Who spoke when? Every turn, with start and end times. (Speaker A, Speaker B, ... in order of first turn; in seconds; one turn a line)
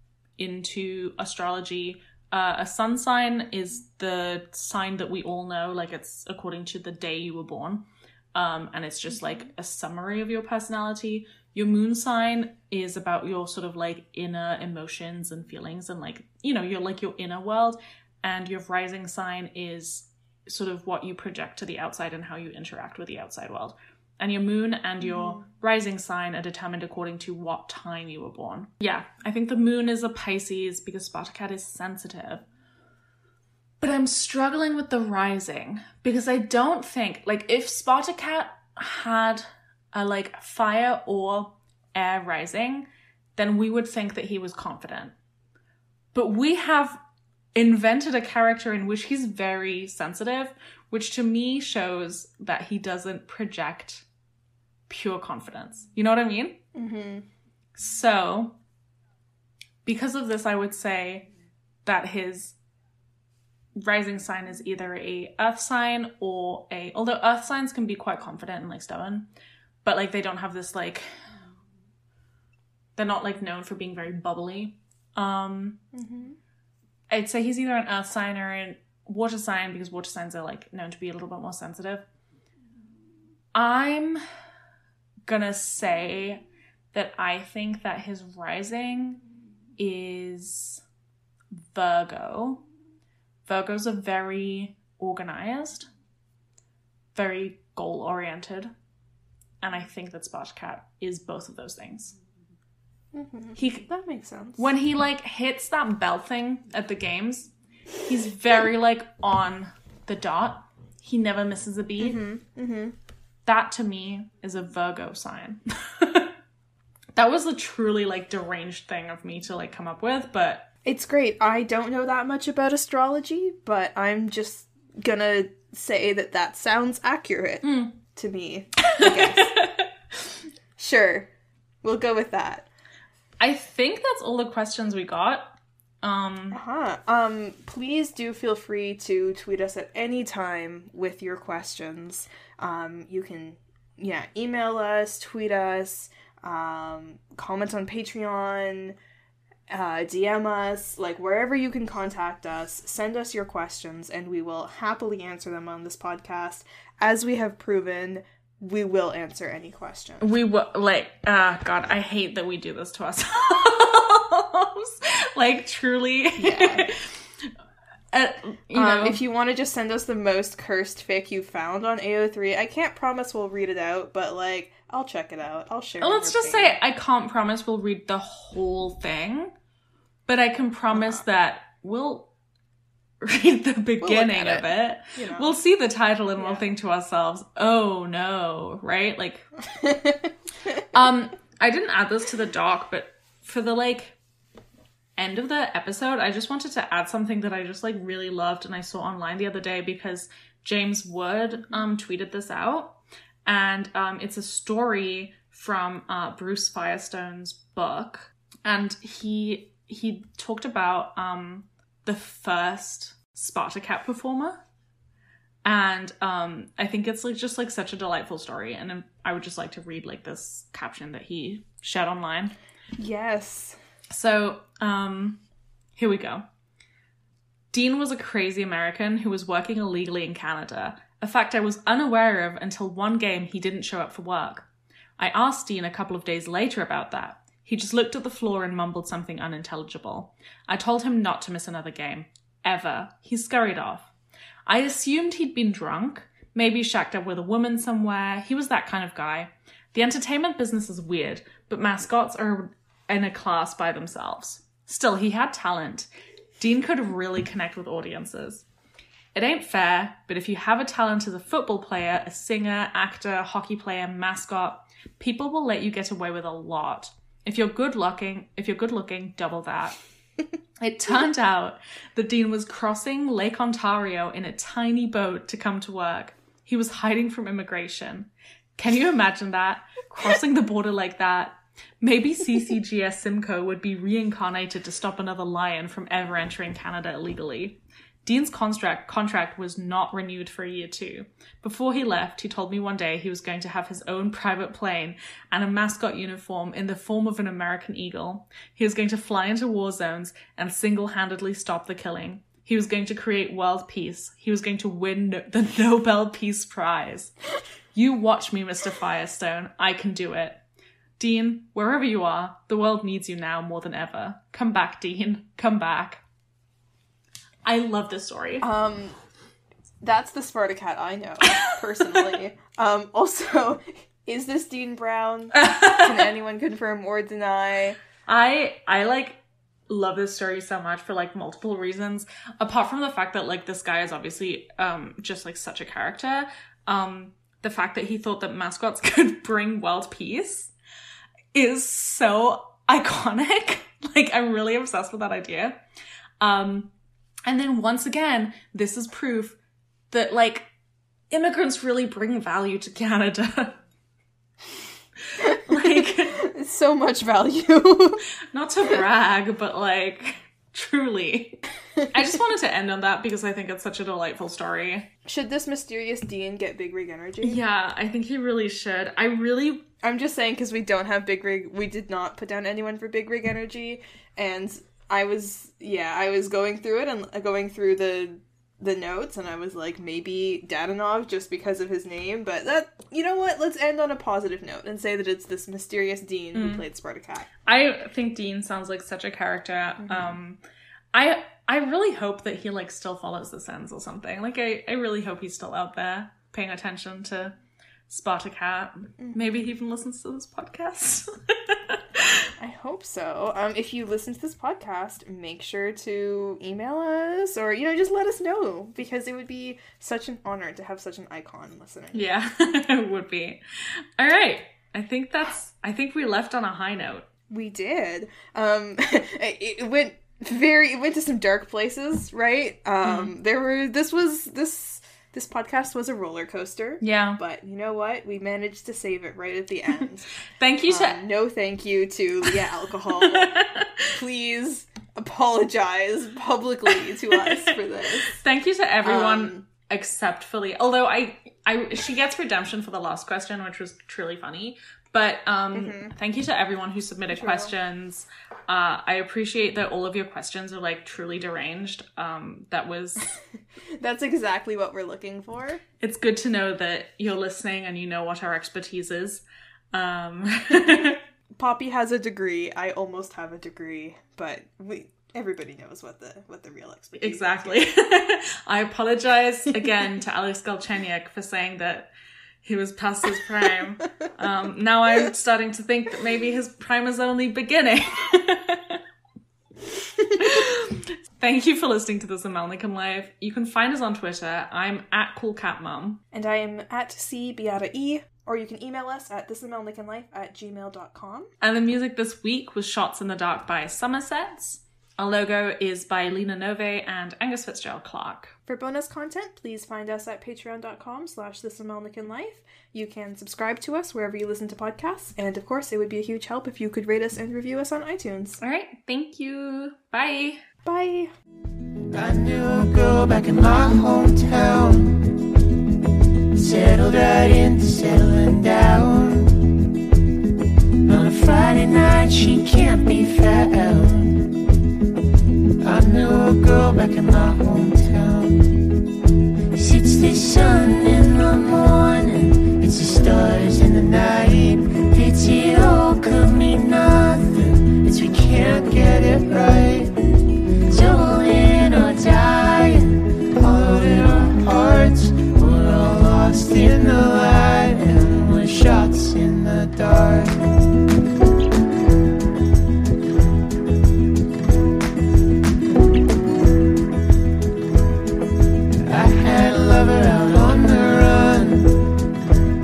Speaker A: 0.4-32.4
Speaker A: 33.8-45.1
Speaker A: 46.1-47.0
Speaker A: 47.5-54.0
Speaker A: 54.9-56.6
Speaker B: 56.7-57.2
Speaker A: 57.8-58.5
Speaker A: 59.8-61.3
Speaker A: 61.8-62.6
Speaker A: 63.8-69.3
Speaker A: 69.8-71.0
Speaker A: 73.0-75.8
Speaker B: 75.9-76.4
Speaker A: 77.1-82.0
Speaker A: 83.5-84.2
Speaker A: 85.2-89.2
Speaker A: 89.8-90.8
Speaker A: 91.6-92.6
Speaker A: 93.5-95.9
Speaker A: 97.1-98.7
Speaker A: 99.6-102.1
Speaker B: 103.1-104.7
Speaker A: 103.5-103.8
Speaker A: 104.6-107.5
Speaker A: 108.0-112.2
Speaker B: 112.0-113.0
Speaker A: 113.5-116.3
Speaker A: 117.2-120.7
Speaker B: 120.8-129.5
Speaker A: 127.6-127.9
Speaker A: 128.8-129.9
Speaker B: 130.8-131.3
Speaker B: 131.8-132.7
Speaker A: 133.4-135.4
Speaker A: 136.0-136.6
Speaker B: 136.5-149.0
Speaker B: 149.7-160.3
Speaker A: 160.2-167.5
Speaker B: 166.4-166.9
Speaker A: 168.1-169.2
Speaker B: 168.7-176.8
Speaker A: 176.0-179.5
Speaker A: 180.3-182.3
Speaker B: 180.9-181.2
Speaker A: 183.2-189.5
Speaker B: 184.0-185.5
Speaker B: 186.4-186.6
Speaker B: 189.8-190.3
Speaker A: 190.9-194.2
Speaker A: 195.2-214.6
Speaker A: 215.6-222.5
Speaker B: 223.0-223.8
Speaker A: 224.1-225.4
Speaker A: 225.9-226.4
Speaker A: 227.7-234.7
Speaker A: 235.2-244.1
Speaker A: 244.7-258.6
Speaker A: 259.3-270.0
Speaker A: 270.8-307.3
Speaker A: 307.9-310.6
Speaker A: 311.2-316.2
Speaker A: 317.6-318.7
Speaker B: 318.6-319.1
Speaker B: 320.0-328.0
Speaker A: 325.5-326.2
Speaker A: 328.3-340.7
Speaker A: 341.5-345.8
Speaker A: 346.4-346.9
Speaker A: 347.5-349.6
Speaker A: 350.1-350.7
Speaker A: 351.3-353.8
Speaker A: 355.3-356.4
Speaker B: 355.4-358.2
Speaker A: 358.5-365.1
Speaker B: 365.2-367.6
Speaker A: 367.4-369.9
Speaker B: 370.0-387.5
Speaker A: 386.5-386.8
Speaker A: 387.6-390.6
Speaker B: 390.0-390.3
Speaker A: 391.1-397.5
Speaker A: 398.1-402.5
Speaker B: 399.2-399.4
Speaker B: 402.6-412.2
Speaker A: 412.1-417.2
Speaker B: 417.5-430.3
Speaker A: 423.0-423.3
Speaker A: 427.0-427.4
Speaker A: 430.6-431.2
Speaker B: 430.9-433.5
Speaker A: 433.1-434.2
Speaker B: 434.1-438.4
Speaker A: 436.9-453.4
Speaker B: 439.0-439.6
Speaker B: 445.7-446.1
Speaker B: 447.3-447.7
Speaker B: 454.0-455.8
Speaker A: 456.0-461.2
Speaker B: 461.5-467.8
Speaker A: 467.2-472.1
Speaker A: 472.6-479.0
Speaker A: 480.2-486.2
Speaker B: 486.3-491.5
Speaker A: 491.6-498.5
Speaker B: 498.7-508.6
Speaker A: 508.6-510.6
Speaker B: 510.8-511.3
Speaker C: 512.1-515.3
Speaker C: 516.5-519.6
Speaker C: 521.0-524.5
Speaker C: 525.8-528.9
Speaker C: 529.7-540.2
Speaker C: 540.9-550.6
Speaker C: 559.0-562.1